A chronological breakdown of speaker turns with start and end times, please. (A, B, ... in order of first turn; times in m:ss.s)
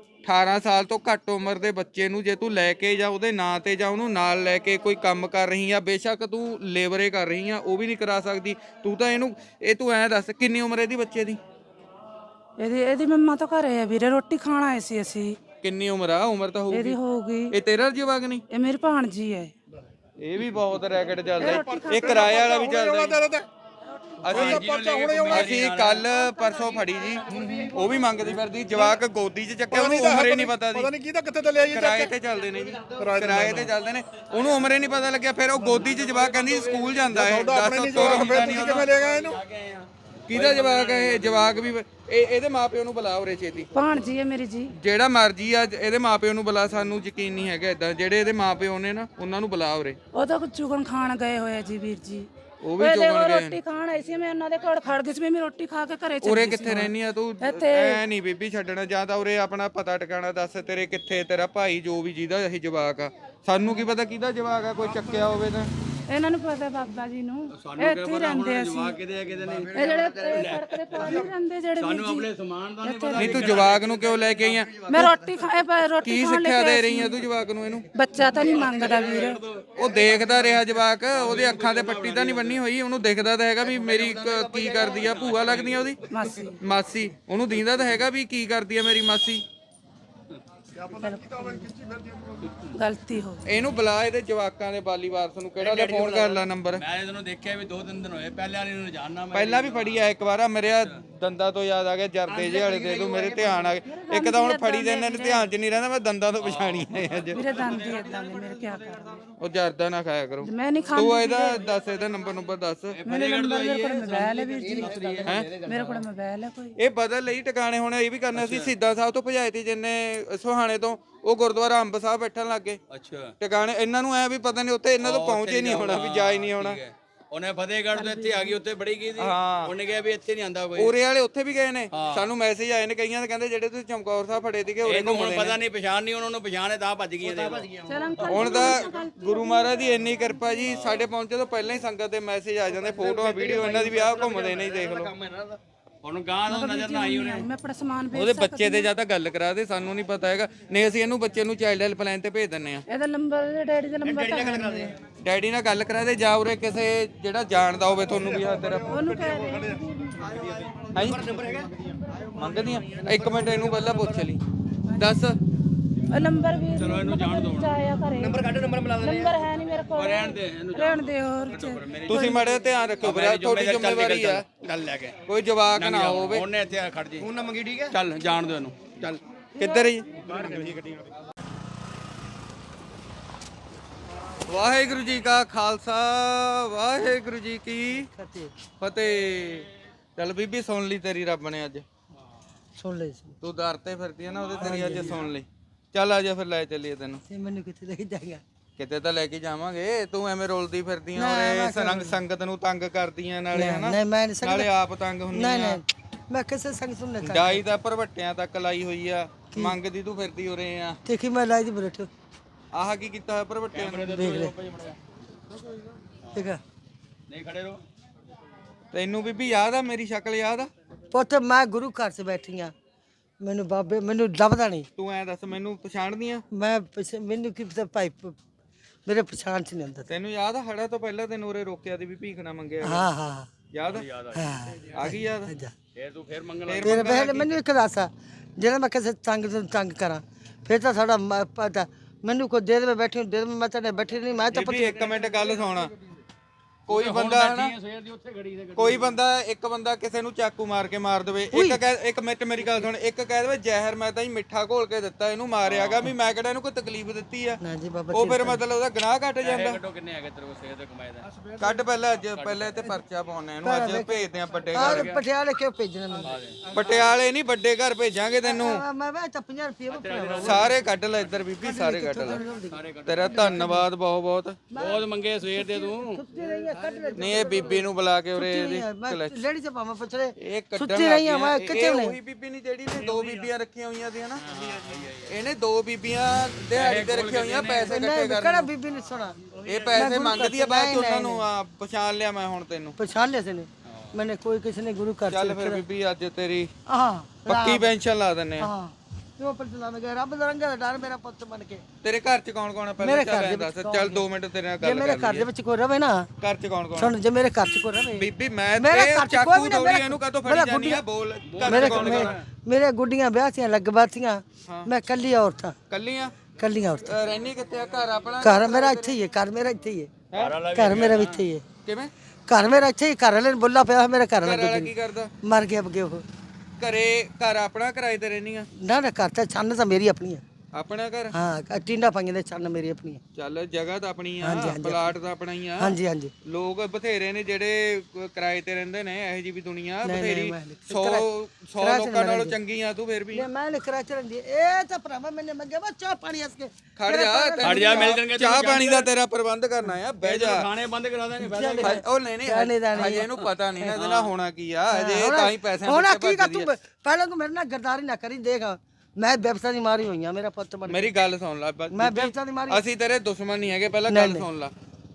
0:00.2-0:11.4 A
0:12.6-0:15.4 B
0:15.6-0:17.0 A
0:16.7-0:17.5 B
0:17.5-0:18.4 A
0:18.5-0:19.5 B
0:20.2-0:23.2 A
0:21.4-0:22.4 B
0:21.4-0:23.5 C
0:23.9-0:24.3 B
0:24.2-0:24.7 A
0:24.2-0:25.5 C
0:24.3-0:26.1 D
0:25.2-0:31.0 A
0:26.2-0:28.0 B
0:27.3-0:27.7 C
0:29.7-0:32.1 C
0:31.6-0:38.9 A
0:33.0-0:33.7 C
0:35.7-0:41.7 D
0:37.1-0:39.4 C
0:40.3-0:43.7 A
0:43.7-0:44.7 B
0:44.7-0:50.0 A
0:50.1-0:58.0 B
0:52.6-0:53.6 A
0:56.2-1:05.7 A
1:06.1-1:09.0 B
1:07.6-1:14.8 D
1:09.7-1:12.3 B
1:12.8-1:13.6 B
1:13.2-1:15.2 A
1:14.8-1:17.2 B
1:16.0-1:17.9 A
1:17.9-1:19.4 B
1:18.2-1:22.6 D
1:19.8-1:26.0 A
1:23.9-1:26.4 D
1:24.4-1:24.8 E
1:26.1-1:26.6 B
1:26.6-1:29.4 A
1:30.8-1:32.4 C
1:30.9-1:32.0 B
1:32.4-1:32.8 D
1:32.7-1:33.7 B
1:33.4-1:36.8 A
1:35.6-1:36.4 E
1:36.7-1:40.1 D
1:39.3-1:47.4 A
1:42.3-1:43.6 E
1:43.8-1:45.5 B
1:46.4-1:48.6 D
1:47.3-1:49.2 B
1:49.4-1:53.0 A
1:50.4-1:51.6 B
1:52.9-1:55.4 D
1:53.0-1:55.0 B
1:54.6-1:56.0 E
1:55.5-1:56.8 B
1:56.8-2:02.8 A
1:58.3-1:58.7 D
2:02.9-2:03.3 D
2:03.4-2:06.8 A
2:05.0-2:10.9 D
2:07.9-2:08.6 B
2:09.2-2:09.7 A
2:10.7-2:15.6 A
2:11.9-2:12.3 D
2:14.8-2:18.7 D
2:17.2-2:18.5 E
2:17.8-2:20.9 B
2:18.2-2:25.1 A
2:20.7-2:21.0 D
2:22.8-2:25.6 E
2:26.0-2:27.5 D
2:26.5-2:28.9 B
2:28.1-2:32.8 A
2:32.9-2:34.9 B
2:34.0-2:34.9 E
2:35.2-2:39.0 A
2:38.1-2:39.8 C
2:38.8-2:40.4 B
2:40.3-2:41.0 C
2:40.9-2:41.7 E
2:40.9-2:41.2 A
2:42.4-2:44.4 A
2:42.5-2:44.3 E
2:44.9-2:45.2 B
2:45.0-2:45.4 A
2:46.1-2:52.7 B
2:46.7-2:47.8 D
2:48.2-2:49.4 E
2:49.9-2:52.5 D
2:52.1-2:54.4 A
2:53.0-2:55.2 D
2:55.3-2:56.5 A
2:55.8-2:57.3 D
2:57.2-2:57.9 E
2:57.9-2:59.2 D
2:59.6-3:00.1 A
2:59.6-3:00.0 B
3:00.2-3:00.8 D
3:00.4-3:01.0 C
3:04.5-3:08.1 A
3:07.9-3:08.5 F
3:08.8-3:11.8 A
3:12.8-3:13.4 F
3:13.4-3:17.2 A
3:14.3-3:15.3 D
3:14.6-3:15.2 F
3:17.3-3:18.4 F
3:18.8-3:25.8 A
3:21.1-3:22.2 F
3:23.5-3:24.7 F
3:25.3-3:27.6 F
3:27.2-3:31.0 A
3:29.5-3:29.8 F
3:31.0-3:32.1 F
3:32.7-3:34.3 A
3:33.7-3:35.0 D
3:34.1-3:34.5 F
3:36.3-3:36.6 F
3:37.3-3:37.8 D
3:38.9-3:40.7 A
3:41.1-3:42.7 F
3:43.4-3:44.9 F
3:45.0-3:46.4 A
3:46.5-3:48.4 F
3:49.0-3:50.1 F
3:50.1-3:53.1 A
3:52.8-3:53.5 F
3:53.7-3:54.1 A
3:53.9-3:54.8 D
3:54.3-3:55.7 F
3:54.9-3:55.5 A
3:55.9-3:57.1 D
3:56.7-3:57.5 A
3:56.8-4:05.2 F
4:04.5-4:05.9 A
4:06.9-4:07.8 A
4:06.9-4:09.2 D
4:08.8-4:17.6 A
4:11.5-4:11.8 F
4:15.6-4:16.1 D
4:17.6-4:18.6 F
4:18.1-4:19.8 A
4:19.4-4:21.3 D
4:21.6-4:25.2 A
4:22.2-4:22.8 D
4:23.6-4:26.3 F
4:24.7-4:25.2 D
4:26.2-4:26.6 D
4:26.7-4:28.8 A
4:28.4-4:30.6 F
4:29.9-4:31.4 D
4:30.4-4:32.4 A
4:31.6-4:33.8 F
4:32.7-4:33.7 D
4:33.0-4:34.6 A
4:34.7-4:42.2 F
4:34.8-4:36.2 D
4:37.2-4:39.4 A
4:40.4-4:44.4 A
4:44.4-4:45.3 D
4:45.2-4:48.7 A
4:46.7-4:48.0 D
4:47.9-4:49.4 F
4:49.6-4:53.0 A
4:49.9-4:51.4 F
4:53.0-4:55.8 F
4:53.8-4:54.1 D
4:55.3-4:56.7 A
4:56.9-4:57.9 F
4:57.5-4:58.7 A
4:58.6-5:01.8 F
5:02.0-5:05.5 A
5:03.0-5:04.2 F
5:04.8-5:06.3 F
5:06.4-5:07.1 A
5:07.0-5:11.0 F
5:08.2-5:12.3 A
5:11.4-5:12.4 D
5:11.6-5:15.8 F
5:14.6-5:14.9 A
5:15.9-5:16.4 A
5:16.6-5:17.2 F
5:17.0-5:19.2 A
5:18.4-5:20.1 F
5:20.3-5:20.6 A
5:20.3-5:21.4 D
5:20.7-5:21.6 F
5:21.8-5:22.1 A
5:22.5-5:24.9 F
5:24.4-5:25.3 A
5:25.4-5:26.2 F
5:26.8-5:28.7 A
5:28.8-5:30.4 F
5:30.7-5:31.3 A
5:31.3-5:33.2 F
5:33.3-5:43.4 A
5:34.4-5:35.1 F
5:35.8-5:36.3 F
5:40.0-5:42.6 F
5:43.3-5:48.1 F
5:47.0-5:50.7 A
5:47.6-5:49.1 D
5:50.2-5:52.0 D
5:51.4-5:53.2 F
5:51.8-5:56.7 A
5:53.0-5:54.3 D
5:54.9-6:01.2 F
6:00.9-6:04.7 A
6:01.9-6:02.8 F
6:04.1-6:04.5 F